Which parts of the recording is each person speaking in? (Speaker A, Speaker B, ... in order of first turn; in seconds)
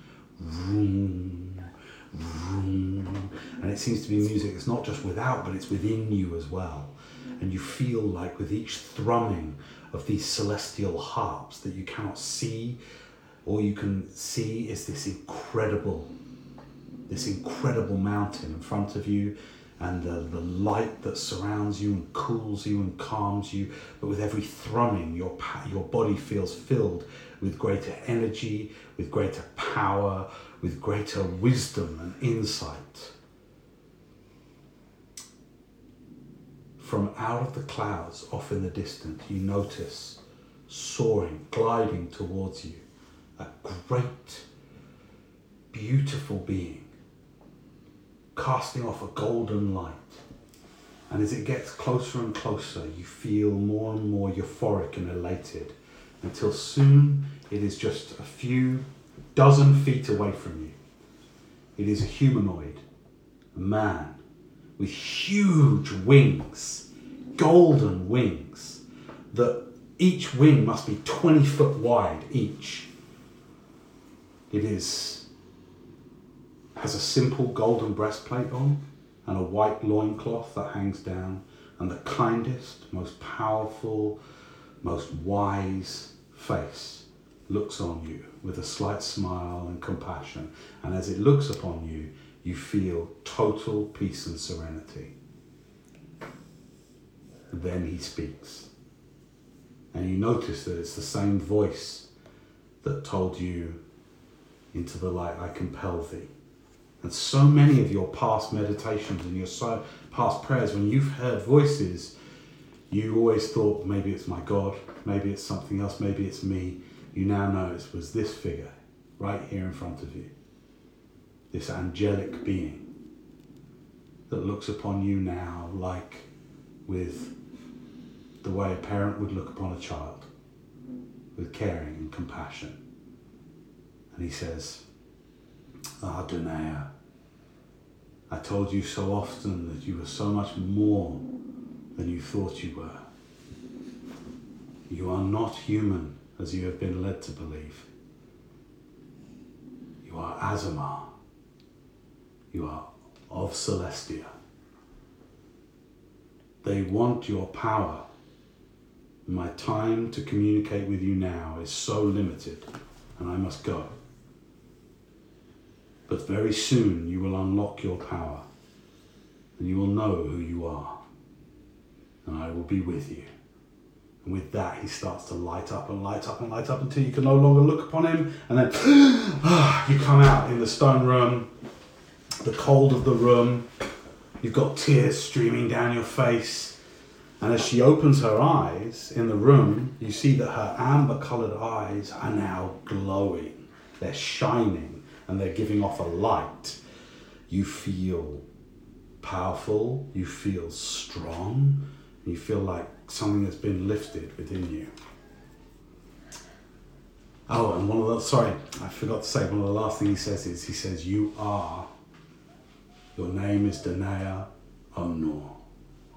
Speaker A: 0.4-12.8, 13.4-16.1, 17.1-33.1, 36.8-42.8, 43.4-44.5, 45.7-46.9, 48.4-50.2, 51.1-60.8, 61.8-62.8, 63.5-64.2, 64.8-72.9, 74.5-75.3, 76.8-84.2, 84.8-95.1, 97.5-98.7, 99.9-102.1, 102.8-103.8, 104.7-106.3, 107.0-112.2, 112.9-120.3, 121.5-122.9, 124.3-126.3, 126.9-127.3, 128.4-130.3, 131.3-132.8, 134.1-134.8, 136.0-136.9, 138.3-141.2, 142.0-143.0, 144.9-147.9, 150.0-151.1, 152.5-154.3, 156.6-158.1, 159.3-164.0, 166.1-168.4, 169.6-171.0, 172.2-173.3, 174.2-181.5, 182.4-183.7, 184.4-186.8, 187.4-196.8, 197.5-198.4, 199.2-204.9, 207.5-211.9, 213.2-215.6